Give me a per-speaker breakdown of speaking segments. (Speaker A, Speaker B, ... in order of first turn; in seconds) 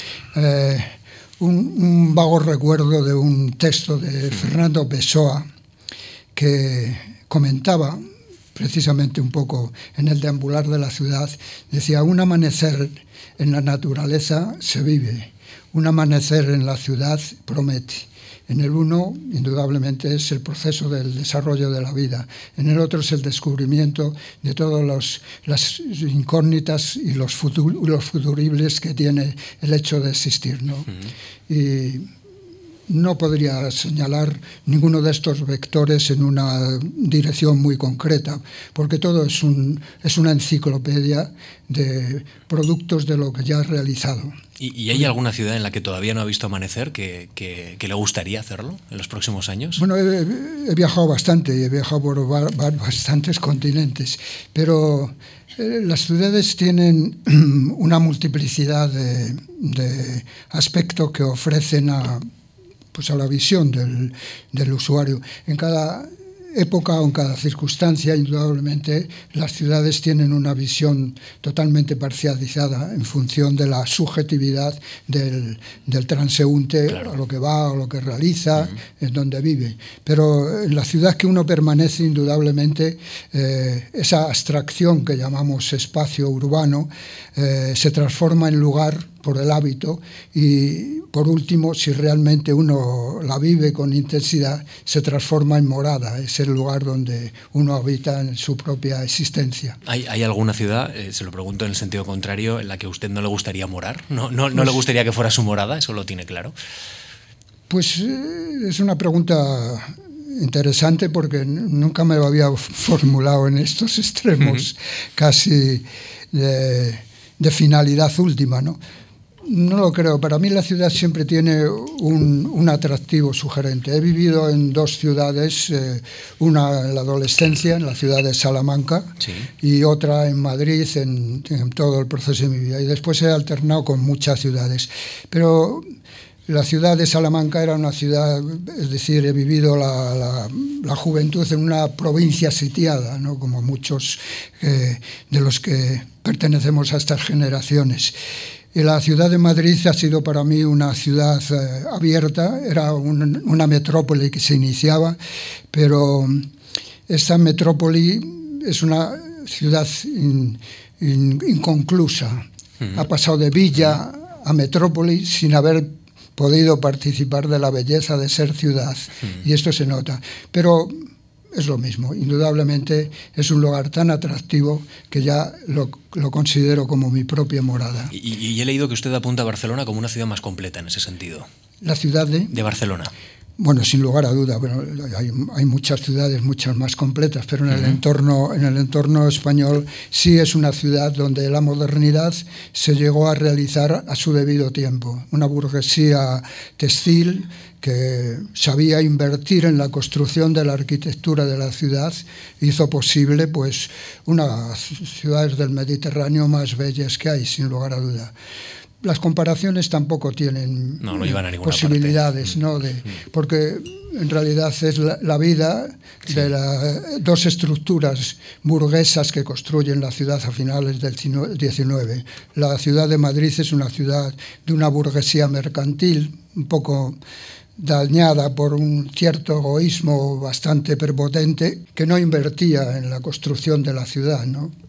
Speaker A: 0.3-5.5, 6.3-8.0, 8.5-30.9, 31.5-32.1, 32.9-44.4, 49.8-62.2, 62.9-99.8, 107.7-118.8, 119.4-135.8, 136.5-148.1, 148.7-155.2, 155.7-156.5, 157.1-178.1, 181.8-182.5, 183.6-208.3, 209.0-227.2, 227.8-234.7
Speaker B: 44.6-49.8, 99.8-106.5, 129.2-129.5, 178.1-181.5, 182.5-183.1, 187.7-188.0, 211.0-212.5